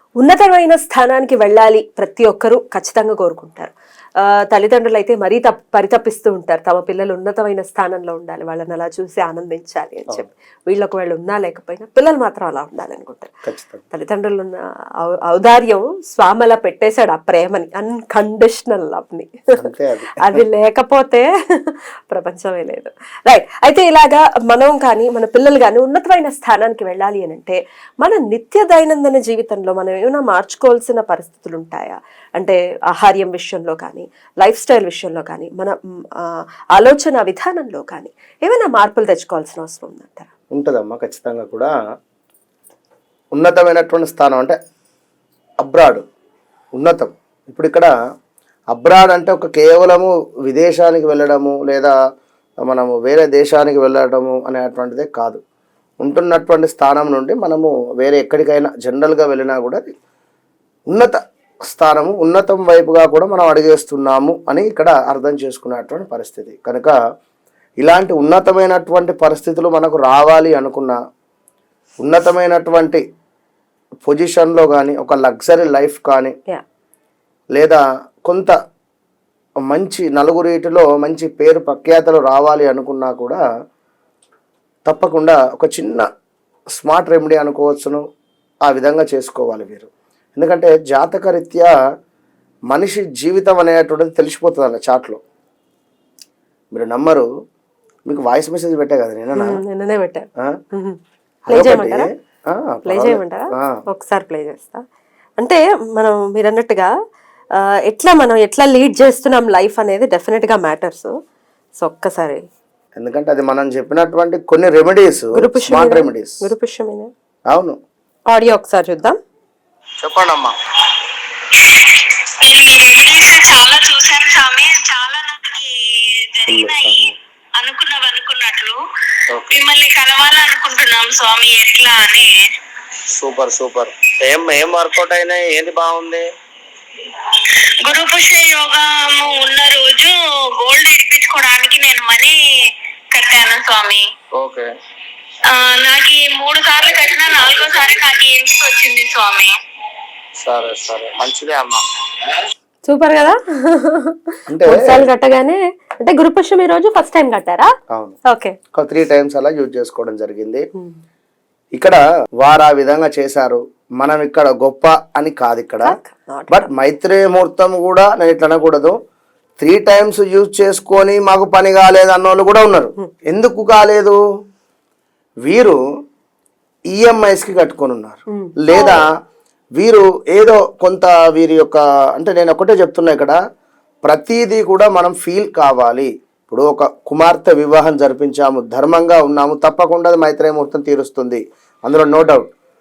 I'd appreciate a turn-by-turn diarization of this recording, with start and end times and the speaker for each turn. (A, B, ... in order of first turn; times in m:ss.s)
0:00.2-0:13.3 A
0:13.5-0:13.8 B
0:13.9-0:19.3 A
0:19.6-0:20.4 B
0:20.2-0:35.8 A
0:36.8-0:40.3 A
0:40.5-0:41.7 B
0:43.3-0:44.6 B
0:45.6-0:46.0 B
0:46.8-0:47.9 B
0:48.7-0:51.9 B
0:52.7-0:55.4 B
0:56.0-0:59.9 B
1:00.9-1:06.9 B
1:07.8-1:11.0 B
1:12.0-1:13.0 B
1:14.0-1:16.3 B
1:17.6-1:18.5 B
1:19.7-1:23.4 B
1:24.9-1:26.1 B
1:26.8-1:28.0 B
1:28.6-1:31.7 B
1:32.7-1:35.2 B
1:36.7-1:37.3 B
1:38.1-1:39.6 B
1:39.3-1:41.0 A
1:41.5-1:43.8 B
1:41.5-1:42.1 A
1:42.9-1:44.8 A
1:45.4-1:46.9 A
1:47.9-1:51.1 A
1:51.8-1:52.4 A
1:53.0-1:56.5 B
1:55.4-1:57.1 A
1:57.5-1:57.8 B
1:58.3-1:59.2 A
2:00.0-2:00.5 B
2:01.5-2:08.8 C
2:06.5-2:07.2 B
2:09.3-2:09.6 B
2:09.5-2:12.3 C
2:13.1-2:16.2 B
2:17.8-2:22.4 C
2:23.1-2:24.0 C
2:24.4-2:24.7 B
2:25.5-2:29.5 C
2:30.4-2:31.8 B
2:32.9-2:37.7 A
2:34.5-2:35.1 B
2:38.3-2:38.6 A
2:38.7-2:40.6 B
2:41.7-2:45.9 B
2:45.9-2:46.7 A
2:46.5-2:49.0 B
2:49.6-2:54.2 B
2:55.5-2:55.8 B
2:56.9-2:59.1 B
2:58.3-2:59.0 A
2:59.8-3:03.4 B
3:04.0-3:12.5 B